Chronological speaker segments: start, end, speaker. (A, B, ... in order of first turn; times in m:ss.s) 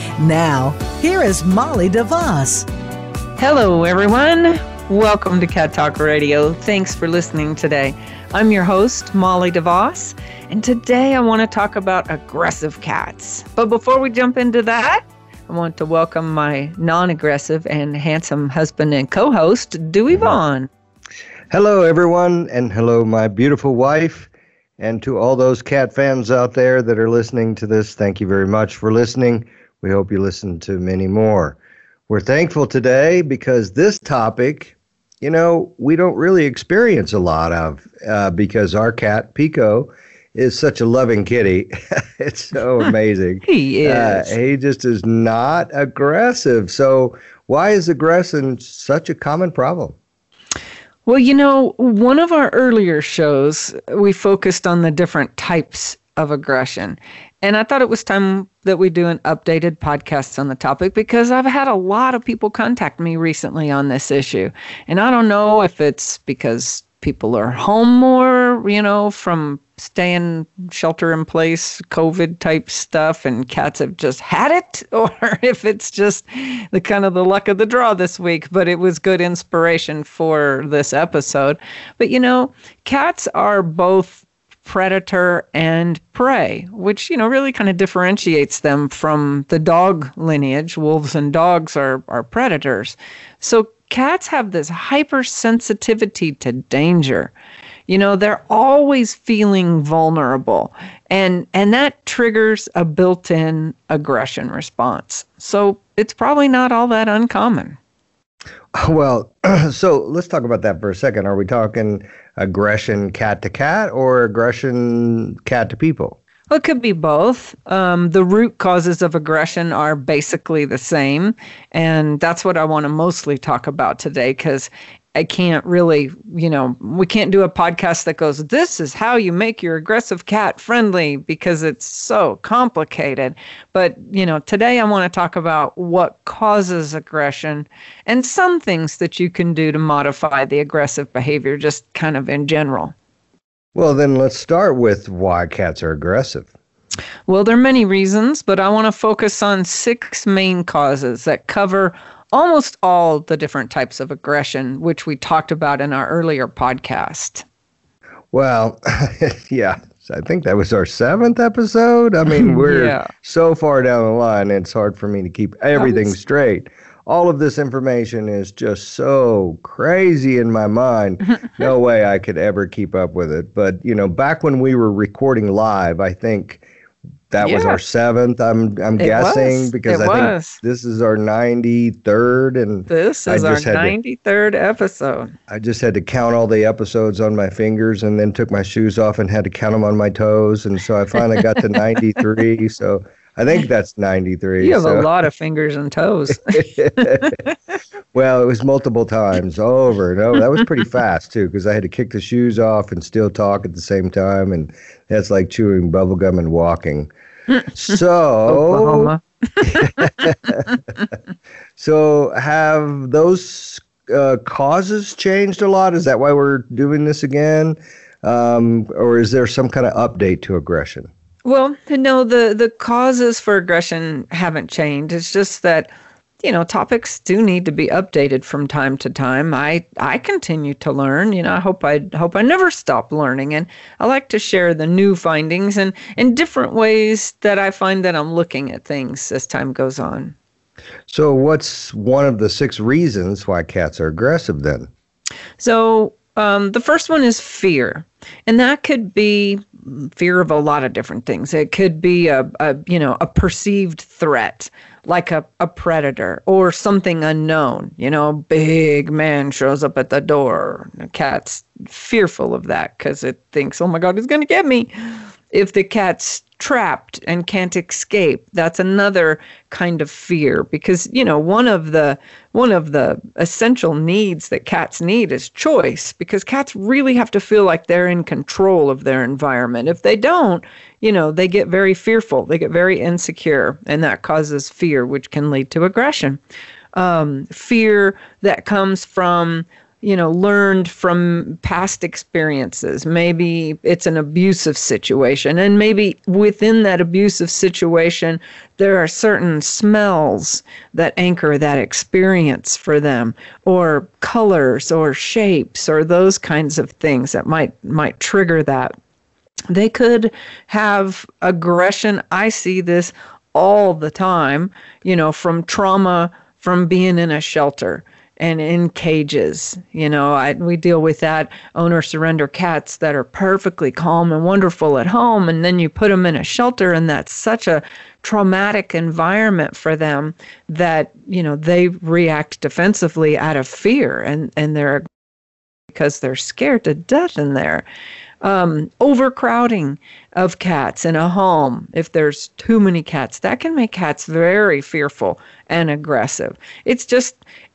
0:00.2-0:02.7 A
0:03.4-0:20.7 B
0:21.5-0:31.6 C
0:32.1-0:50.0 C
0:43.4-0:44.4 B
0:51.0-1:37.3 B
1:37.9-1:47.8 B
1:48.7-1:56.2 C
1:56.5-2:22.9 B
2:23.7-2:26.5 C
2:27.3-2:37.4 B
2:38.3-2:56.6 C
2:42.3-2:43.1 B
2:45.8-2:46.1 B
2:57.3-3:03.9 C
2:57.4-2:57.8 B
2:59.0-3:00.6 B
3:02.9-3:05.3 B
3:05.5-3:15.1 C
3:14.6-3:17.5 B
3:16.5-3:17.3 C
3:18.1-3:27.1 C
3:27.7-3:30.6 C
3:28.5-3:30.8 B
3:31.8-3:41.1 C
3:41.4-3:45.9 B
3:46.4-4:00.3 B
4:01.1-4:04.9 C
4:05.6-4:24.9 B
4:25.5-4:46.4 B
4:47.0-5:08.9 B
5:09.7-5:35.0 B
5:35.9-5:37.8 B
5:38.4-5:47.4 B